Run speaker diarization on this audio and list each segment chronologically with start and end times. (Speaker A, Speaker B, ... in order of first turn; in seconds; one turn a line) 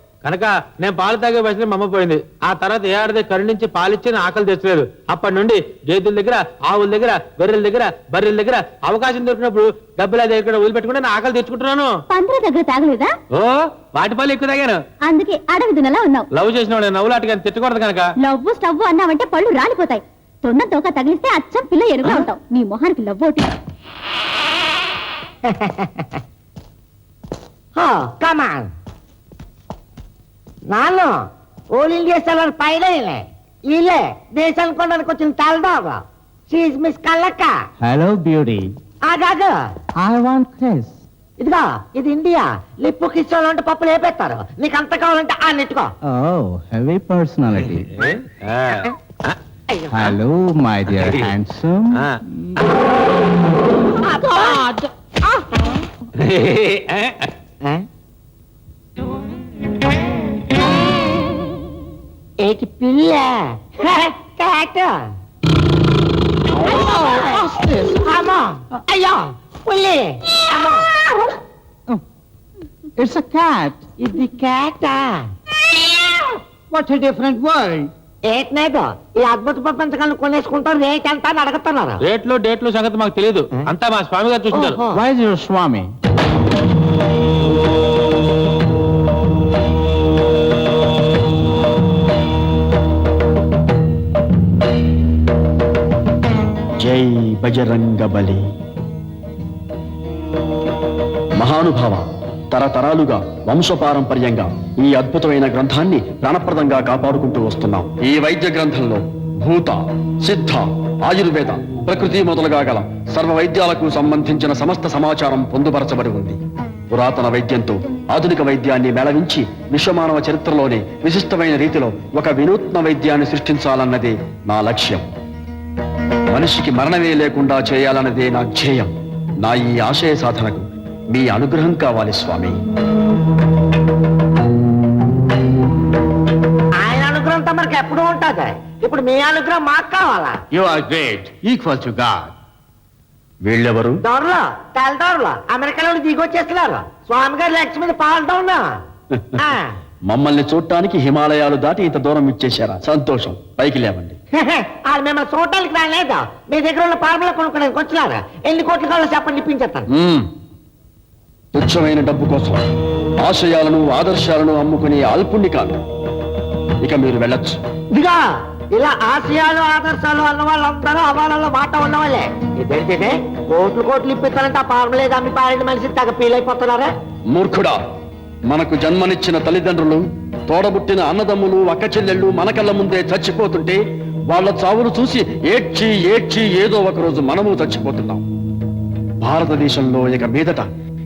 Speaker A: 0.2-12.0
Speaker B: 12.1-13.1
Speaker A: 13.3-14.8
Speaker B: 15.0-16.3
Speaker A: 16.3-18.1
Speaker B: 18.2-23.5
Speaker C: 25.5-26.2
Speaker C: 27.8-28.7
Speaker C: 30.7-31.2
Speaker C: 31.7-37.5
Speaker D: 37.8-38.7
Speaker C: 39.0-39.5
Speaker D: 40.0-40.9
Speaker C: 41.4-45.9
Speaker D: 46.2-47.9
Speaker A: 48.5-48.7
Speaker C: 49.7-50.1
Speaker D: 49.9-52.0
Speaker C: 54.1-54.9
Speaker C: 62.4-65.0
Speaker C: 67.8-70.8
Speaker D: 73.0-73.8
Speaker C: 74.0-75.2
Speaker C: 78.3-82.0
Speaker A: 82.0-84.8
Speaker C: 84.5-85.0
Speaker D: 84.9-85.8
Speaker E: 96.8-98.4
Speaker E: 101.4-116.4
Speaker E: 116.9-125.0
Speaker E: 126.3-128.9
Speaker E: 129.4-132.6
Speaker C: 136.8-140.4
Speaker D: 141.4-142.1
Speaker E: 143.4-144.0
Speaker C: 144.0-148.7
Speaker C: 149.4-149.7
Speaker E: 150.1-154.2
Speaker C: 154.4-159.8
Speaker E: 159.9-160.3
Speaker E: 161.5-162.6
Speaker E: 163.2-165.8
Speaker E: 166.8-167.6
Speaker C: 167.9-168.2
Speaker C: 168.7-176.9
Speaker E: 177.3-177.8
Speaker E: 178.5-188.2
Speaker E: 189.2-190.7